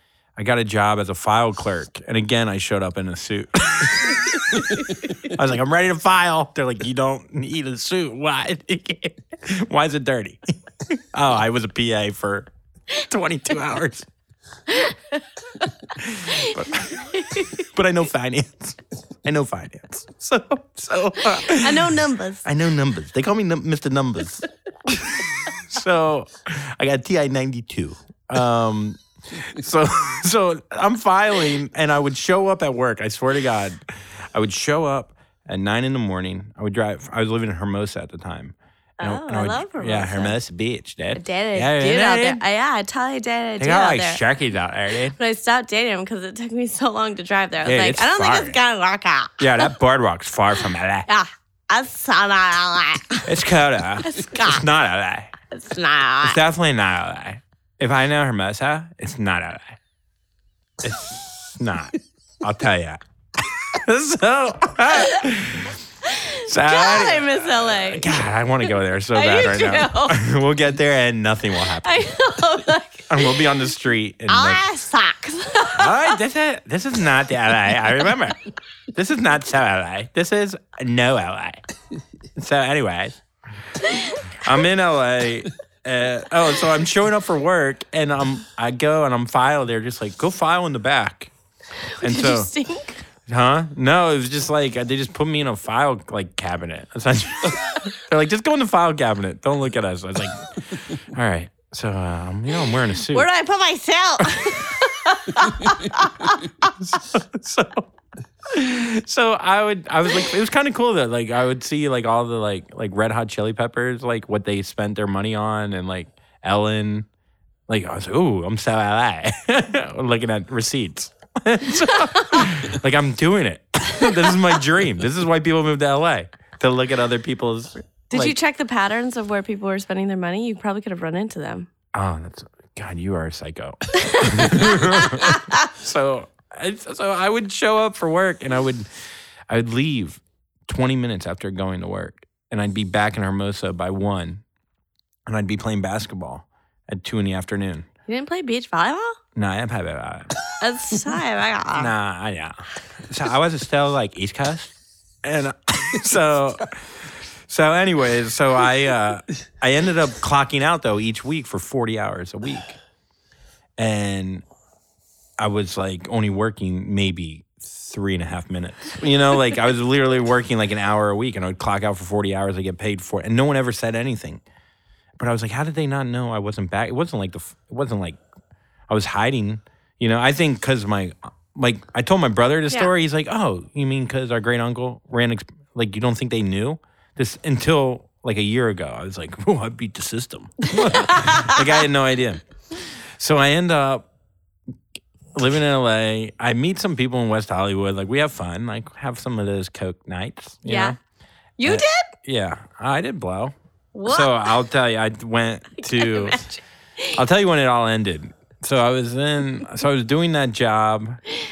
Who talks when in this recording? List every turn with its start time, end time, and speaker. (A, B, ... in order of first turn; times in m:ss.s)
0:00.4-0:14.1 A
0:14.7-0:15.7 B
0:16.0-0:42.4 A
0:16.3-0:17.7 B
0:21.3-0:22.5 B
0:39.0-0:40.4 B
0:41.1-0:44.2 B
0:43.6-0:45.2 A
0:45.1-0:49.7 B
0:47.6-0:48.6 A
0:49.4-0:51.1 A
0:51.1-0:53.3 B
0:53.3-0:55.3 A
0:54.0-0:54.6 B
0:55.5-0:56.4 B
0:56.2-0:59.8 A
1:00.8-1:05.8 A
1:06.1-1:08.1 B
1:06.4-1:12.2 A
1:09.1-1:10.2 B
1:11.8-1:13.6 B
1:13.1-1:14.6 A
1:14.3-1:16.2 B
1:15.7-1:18.4 A
1:18.9-1:21.6 A
1:22.4-1:23.2 A
1:23.8-1:24.4 B
1:24.4-1:31.3 A
1:31.9-1:33.0 B
1:32.0-1:32.5 A
1:33.3-1:43.3 A
1:43.1-1:46.7 B
1:46.7-1:47.9 A
1:48.4-1:57.1 A
1:57.7-2:08.4 A
2:08.1-2:11.7 B
2:11.9-2:18.9 A
2:14.0-2:15.7 B
2:19.5-2:24.4 A
2:25.3-2:27.9 A
2:28.1-2:29.2 B
2:29.4-2:30.4 A
2:30.6-2:31.9 B
2:31.7-2:42.8 A
2:43.8-2:44.4 A
2:45.4-2:54.4 A
2:55.2-2:58.2 A
2:58.9-3:12.4 A
3:10.7-3:11.6 B
3:13.2-3:14.1 A
3:15.3-3:21.0 A
3:20.6-3:21.0 B
3:21.6-3:22.1 B
3:21.6-3:23.5 A
3:23.9-3:24.6 B
3:24.0-3:26.4 A
3:25.8-3:27.2 B
3:27.2-3:31.2 A